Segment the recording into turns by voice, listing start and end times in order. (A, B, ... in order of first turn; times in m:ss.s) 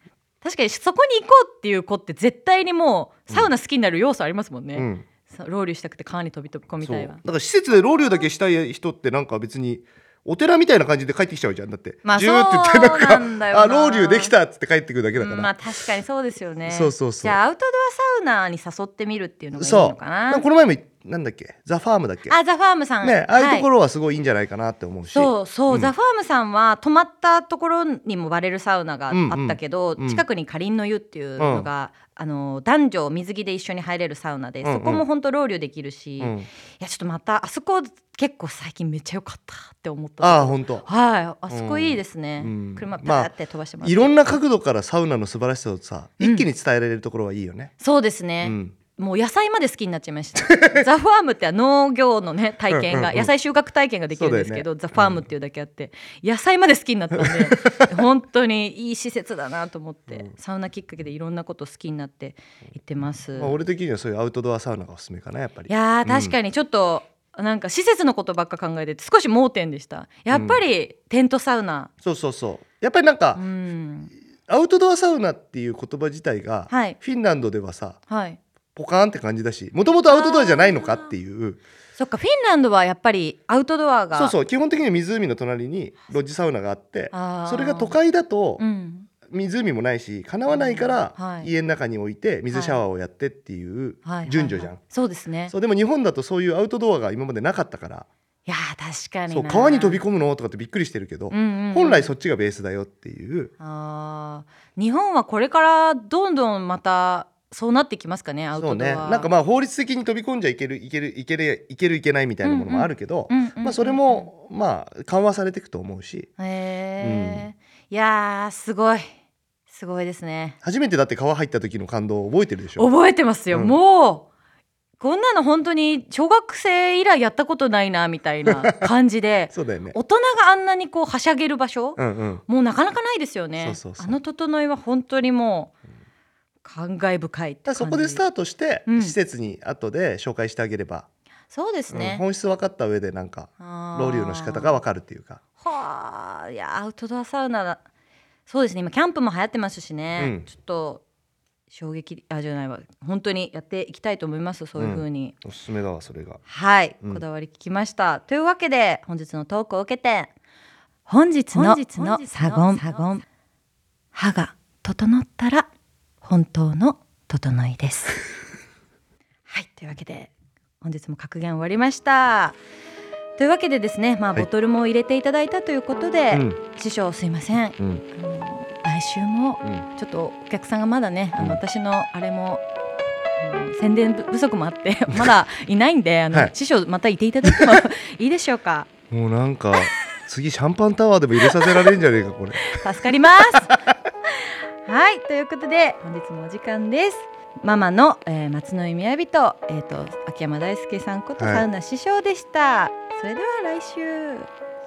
0:00.4-0:07.2 A
0:04.8-0:05.0 B
0:06.8-0:15.5 B
0:12.0-0:14.3 A
0:15.2-0:20.5 A
0:16.7-0:17.4 B
0:19.6-0:22.4 B
0:22.3-0:23.7 A
0:23.0-0:25.9 B
0:25.1-0:44.3 A
0:29.1-0:30.2 B
0:31.4-0:31.7 B
0:34.6-0:35.0 B
0:36.2-0:36.5 B
0:40.2-0:40.9 B
0:41.5-0:43.3 B
0:43.8-0:47.7 B
0:46.2-0:46.5 A
0:47.8-1:03.6 A
0:48.4-0:48.8 B
0:50.6-0:50.8 B
0:52.7-0:53.3 B
0:54.1-0:55.3 B
0:57.2-0:57.9 B
1:03.4-1:06.4 B
1:05.7-1:11.9 A
1:10.3-1:10.6 B
1:12.0-1:13.4 B
1:13.4-1:14.1 A
1:14.5-1:18.0 B
1:16.7-1:17.0 A
1:18.1-1:18.4 A
1:18.8-1:21.6 B
1:20.1-1:21.1 A
1:22.0-1:24.4 A
1:24.1-1:28.6 B
1:27.1-1:28.0 A
1:28.6-1:29.1 A
1:29.3-1:34.8 B
1:30.5-1:31.5 A
1:32.5-1:32.8 A
1:34.0-1:35.5 A
1:35.5-1:38.1 B
1:38.5-1:40.0 A
1:39.3-1:43.5 B
1:41.3-1:42.1 A
1:43.6-1:49.3 A
1:48.6-1:56.3 B
1:52.4-1:54.3 A
1:56.4-1:59.1 A
1:57.0-1:57.5 B
1:59.7-2:00.6 A
2:00.6-2:02.9 B
2:02.8-2:04.3 A
2:05.0-2:15.7 A
2:08.5-2:08.9 B
2:09.5-2:10.0 B
2:12.0-2:12.4 B
2:13.6-2:14.2 B
2:16.6-2:18.2 A
2:17.7-2:21.1 B
2:18.9-2:19.2 A
2:21.5-2:22.2 A
2:21.9-2:25.4 B
2:23.6-2:24.8 A
2:25.6-2:27.8 A
2:28.5-2:31.0 A
2:30.2-2:30.5 B
2:31.7-2:35.3 A
2:34.8-2:36.4 B
2:36.5-2:40.3 A
2:41.1-2:43.2 A
2:44.1-2:45.7 A
2:46.2-2:48.2 A
2:49.5-2:52.6 A
2:53.4-3:02.6 A
2:56.3-2:56.6 B
3:03.4-3:08.9 A
3:09.1-3:12.8 B
3:12.7-3:13.8 A
3:14.4-3:24.5 A
3:21.4-3:21.6 B